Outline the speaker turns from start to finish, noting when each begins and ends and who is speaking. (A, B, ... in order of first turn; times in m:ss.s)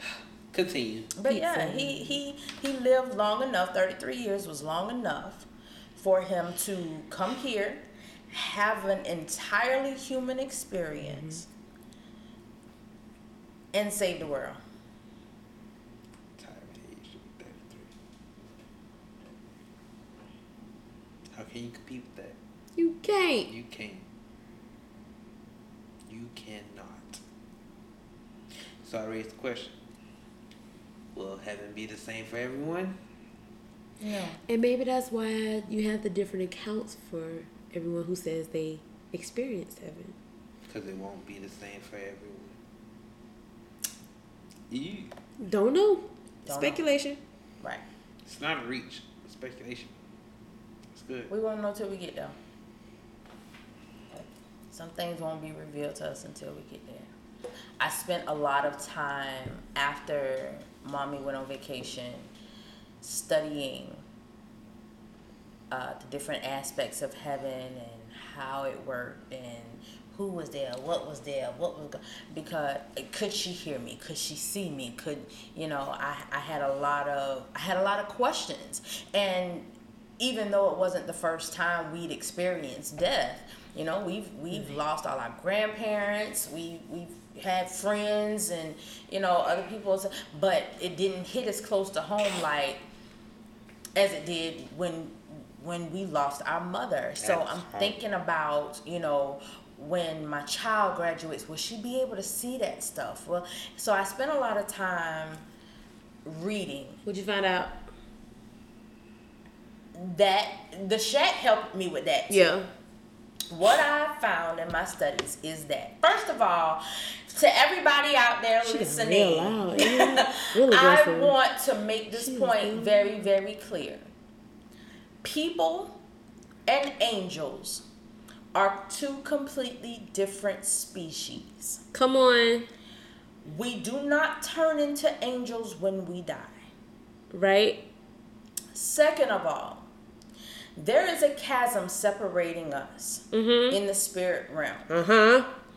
0:00.5-0:01.1 A
0:01.1-0:11.4 B
0:01.2-0:02.2 C
0:11.0-0:11.4 C
0:13.7-0:14.6 B
0:16.4-0:17.9 A
0:21.3-0:22.4 A
0:22.8-0:23.5 C
0:23.5-0:24.0 A
0:26.1-0:27.2 A
0:28.8-0:29.8 A
0:31.1-0:33.0 A
0:34.0-0:34.4 B
0:34.5-0:40.2 C
0:40.6-0:42.6 A
0:44.7-0:45.1 A
0:45.4-0:47.2 C
0:46.5-0:46.8 B
0:48.2-0:50.0 A
0:50.9-0:51.3 A
0:51.3-0:52.4 B
0:54.1-0:57.1 B
0:57.8-1:02.3 B
1:03.0-1:04.0 B
1:05.7-1:32.8 B
1:24.5-1:24.8 C
1:33.9-1:45.4 B
1:37.2-1:38.0 A
1:46.2-1:47.0 B
1:47.0-1:47.9 C
1:49.9-1:52.5 B
1:52.3-1:52.7 C
1:53.5-2:04.1 B
1:58.6-2:01.3 C
2:02.1-2:03.3 C
2:05.2-2:06.0 B
2:06.7-2:07.8 B
2:08.5-2:11.8 B
2:11.9-2:12.7 C
2:13.4-2:16.7 B
2:17.3-2:17.8 C
2:18.7-2:19.9 B
2:20.8-2:24.9 B
2:23.3-2:23.8 C
2:24.9-2:25.5 C